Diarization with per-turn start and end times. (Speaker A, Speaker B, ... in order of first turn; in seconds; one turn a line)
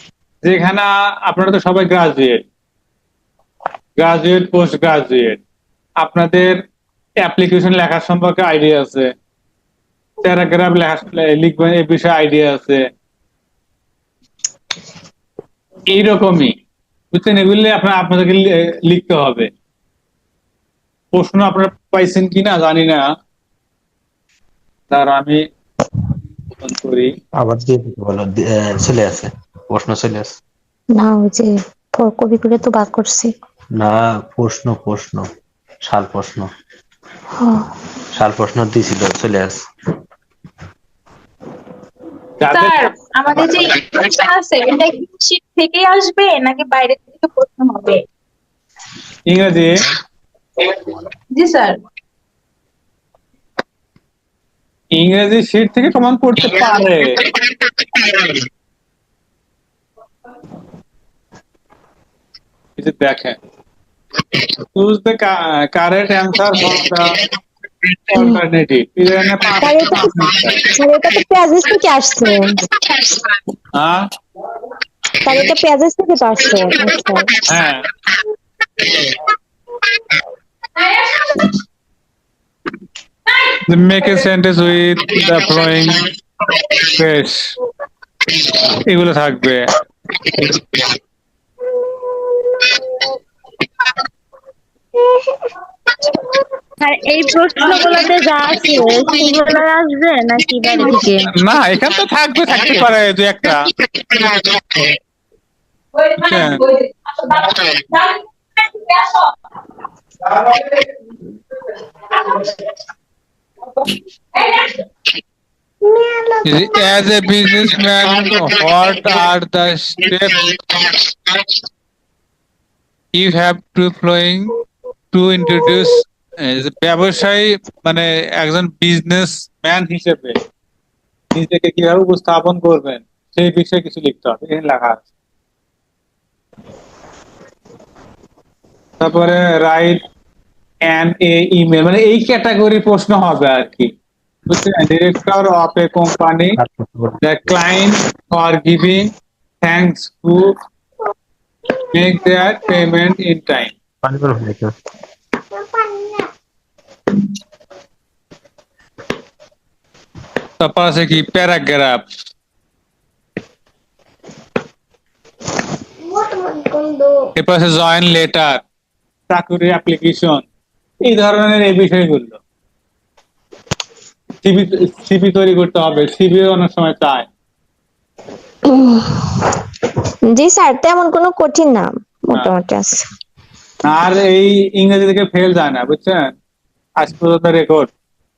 Speaker A: 0.5-2.5
Speaker A: 4.0-5.4
Speaker A: 6.0-6.6
Speaker A: 7.2-9.1
Speaker A: 10.2-12.8
Speaker A: 15.9-16.6
Speaker A: 17.1-19.5
Speaker A: 21.1-23.1
Speaker A: 24.9-25.4
Speaker A: 26.6-27.1
Speaker B: 27.4-30.4
Speaker C: 30.9-33.3
Speaker B: 33.8-35.3
Speaker B: 35.9-36.5
Speaker C: 37.4-37.7
Speaker B: 38.1-39.6
Speaker A: 42.4-42.9
Speaker D: 42.5-48.0
Speaker A: 49.3-49.8
Speaker D: 51.4-51.8
Speaker A: 55.0-57.2
Speaker A: 62.8-63.4
Speaker A: 64.7-67.1
Speaker A: 68.1-70.7
Speaker C: 69.6-72.6
Speaker A: 73.8-74.1
Speaker C: 75.2-77.3
Speaker A: 77.5-77.9
Speaker D: 80.8-81.5
Speaker D: 83.3-84.2
Speaker A: 83.7-86.1
Speaker A: 86.7-87.5
Speaker A: 88.7-89.6
Speaker E: 96.8-101.3
Speaker D: 97.6-98.1
Speaker D: 98.7-99.5
Speaker D: 100.7-101.0
Speaker A: 101.3-103.7
Speaker D: 105.9-109.3
Speaker A: 106.2-106.6
Speaker D: 110.5-110.8
Speaker D: 112.1-112.5
Speaker D: 113.8-114.8
Speaker A: 116.4-120.7
Speaker A: 123.1-124.5
Speaker A: 125.1-130.4
Speaker A: 131.3-135.1
Speaker A: 139.0-140.0
Speaker A: 140.9-143.9
Speaker A: 144.5-146.6
Speaker B: 146.6-147.2
Speaker A: 147.2-149.1
Speaker A: 149.6-150.5
Speaker A: 151.9-153.7
Speaker B: 154.0-154.7
Speaker A: 160.6-162.1
Speaker C: 166.4-167.0
Speaker A: 167.4-168.6
Speaker A: 169.3-170.5
Speaker A: 171.1-172.4
Speaker A: 174.4-177.3
Speaker C: 178.7-179.4
Speaker C: 180.3-183.1
Speaker A: 183.8-186.3
Speaker A: 187.0-187.9